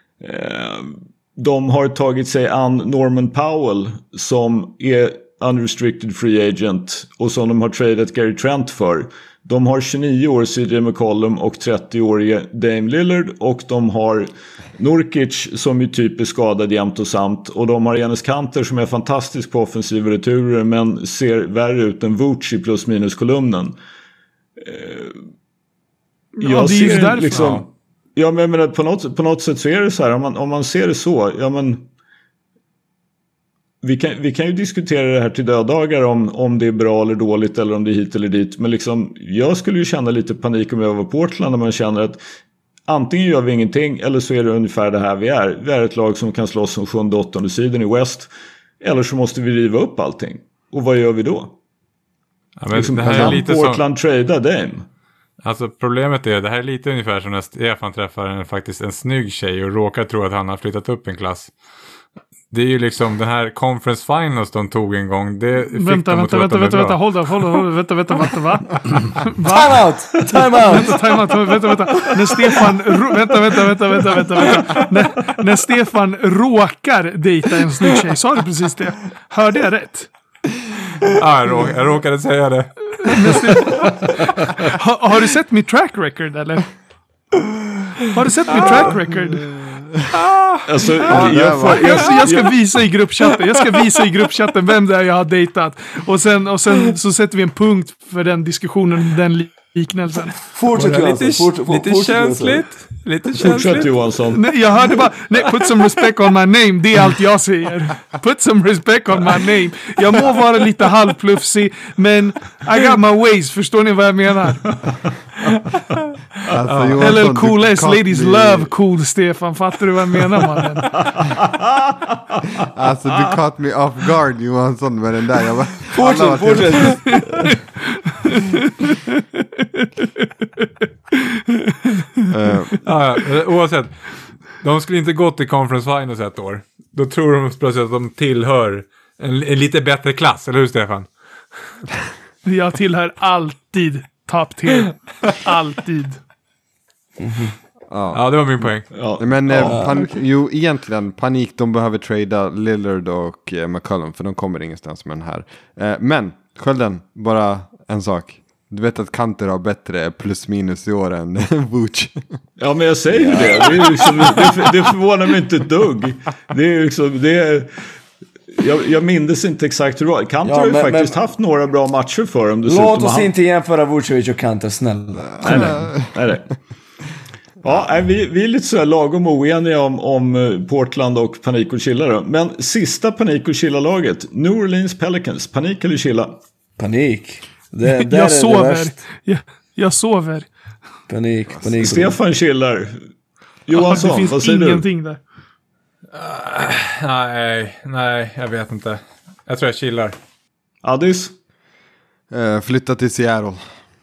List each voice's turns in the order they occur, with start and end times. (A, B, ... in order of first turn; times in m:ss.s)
0:00.2-0:23.8 A
0:24.6-0:25.2 A
0:26.4-0:27.6 B
0:26.4-0:27.6 A
0:27.4-0:27.6 C
0:28.2-0:31.9 A
0:33.8-0:42.2 A
0:42.9-0:48.3 A
0:48.8-0:51.5 A
0:52.6-0:53.8 C
0:52.7-0:54.9 A
0:53.1-0:53.4 D
0:55.4-1:01.5 C
1:02.5-1:07.2 C
1:05.7-1:09.8 B
1:09.4-1:11.0 E
1:10.7-1:20.1 B
1:21.1-1:23.7 C
1:23.0-1:24.1 B
1:24.6-1:26.7 B
1:28.1-1:29.4 B
1:29.5-1:29.9 D
1:30.7-1:32.5 A
1:31.1-1:32.2 D
1:31.7-1:40.4 B
1:40.5-1:42.7 E
1:40.7-1:44.0 C
1:43.4-1:44.4 A
1:44.3-1:54.7 B
1:56.5-1:58.7 D
1:56.7-1:57.2 C
1:57.0-2:01.0 B
2:01.1-2:01.9 A
2:02.6-2:07.2 D
2:05.9-2:07.2 E
2:07.1-2:07.6 B
2:08.2-2:10.3 B
2:11.3-2:12.0 B
2:12.3-2:12.8 D
2:12.8-2:21.1 C
2:22.4-2:26.2 B
2:27.9-2:42.4 D
2:28.1-2:29.8 C
2:28.9-2:30.0 A
2:29.7-2:30.1 E
2:42.6-2:47.9 A
2:43.2-2:44.4 D
2:43.2-2:43.6 E
2:48.6-2:53.3 A
2:50.4-2:51.2 E
2:52.7-2:55.8 E
2:55.4-2:56.1 D
2:55.4-2:56.5 A
2:57.6-3:06.4 A
3:06.8-3:09.0 E
3:07.8-3:10.5 B
3:11.1-3:12.2 E
3:11.8-3:13.0 A
3:13.7-3:14.8 A
3:13.7-3:15.2 B
3:16.1-3:20.2 C
3:20.8-3:21.3 A
3:22.3-3:23.8 D